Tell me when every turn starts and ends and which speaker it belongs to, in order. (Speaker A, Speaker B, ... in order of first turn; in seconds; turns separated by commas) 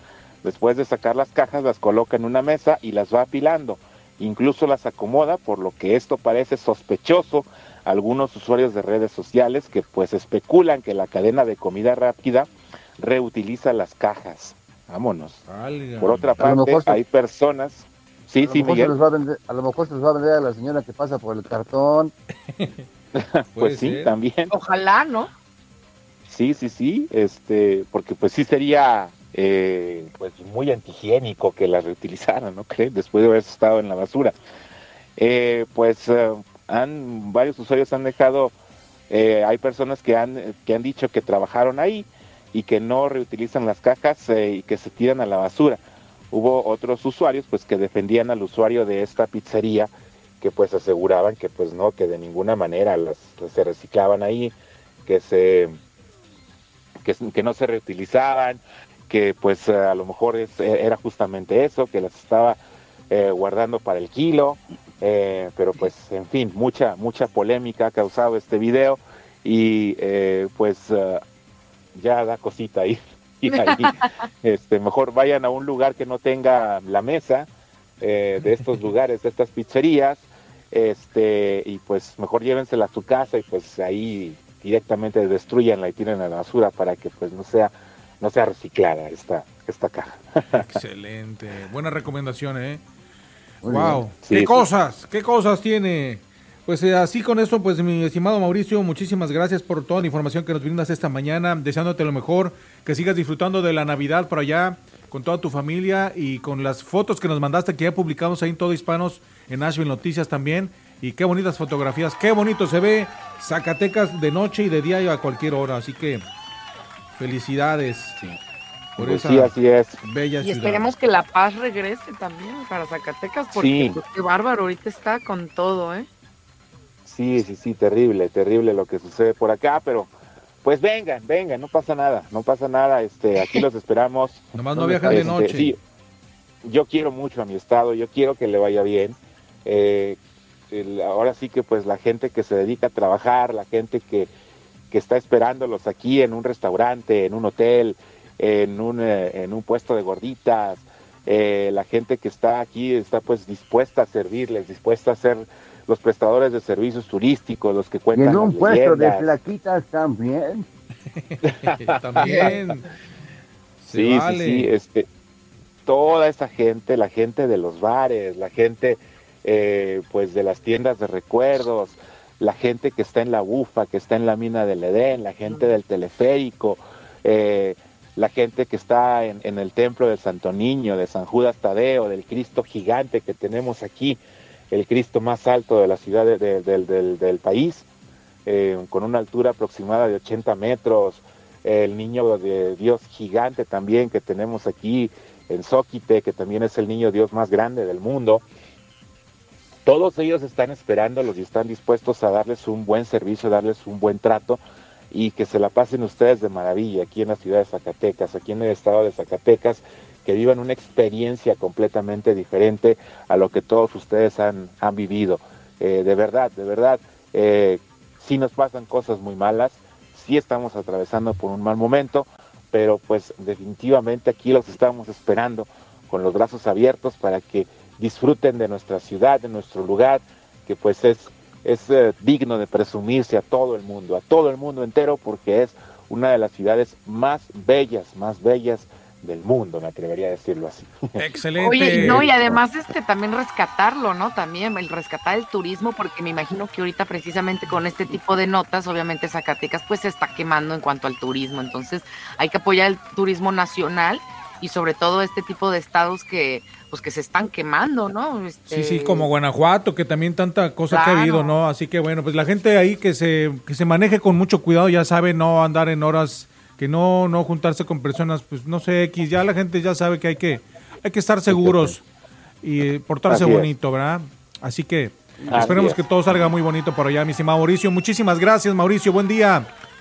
Speaker A: 0.4-15.4, Speaker B: 15.5-16.4, Speaker A: 16.0-18.9, Speaker C: 16.4-17.0, Speaker C: 18.4-22.1, Speaker B: 22.6-22.9, Speaker A: 23.2-24.5, Speaker B: 23.6-24.1, Speaker D: 24.5-25.3, Speaker A: 26.3-34.3, Speaker A: 35.2-38.5, Speaker A: 39.1-45.8, Speaker A: 46.3-54.5, Speaker A: 55.0-55.8, Speaker A: 57.0-62.6, Speaker A: 63.1-71.2, Speaker A: 71.9-77.5, Speaker D: 73.5-74.1, Speaker A: 78.0-90.2, Speaker B: 90.5-92.8, Speaker C: 93.6-94.0, Speaker B: 93.6-116.2, Speaker A: 94.2-94.6, Speaker B: 117.2-118.2, Speaker A: 119.0-120.0, Speaker B: 119.0-120.8, Speaker D: 120.4-126.1, Speaker A: 123.5-124.0, Speaker A: 127.0-130.1, Speaker A: 130.6-135.8, Speaker B: 134.5-135.7, Speaker C: 134.7-135.4, Speaker A: 136.6-140.2, Speaker A: 140.7-144.3, Speaker A: 144.9-159.3, Speaker C: 158.1-160.6, Speaker B: 161.2-162.8, Speaker A: 161.5-162.6, Speaker B: 163.8-164.7, Speaker A: 163.9-165.1, Speaker A: 165.8-184.2, Speaker D: 175.5-175.7, Speaker A: 184.7-187.8, Speaker A: 188.4-198.4, Speaker A: 199.8-204.6, Speaker A: 205.1-241.1, Speaker B: 241.2-242.2, Speaker D: 241.6-259.3, Speaker A: 242.0-242.6, Speaker B: 258.7-272.0, Speaker D: 260.9-261.5, Speaker A: 271.5-271.9, Speaker B: 272.6-279.7, Speaker A: 273.3-273.7, Speaker C: 275.4-275.8, Speaker A: 275.5-276.0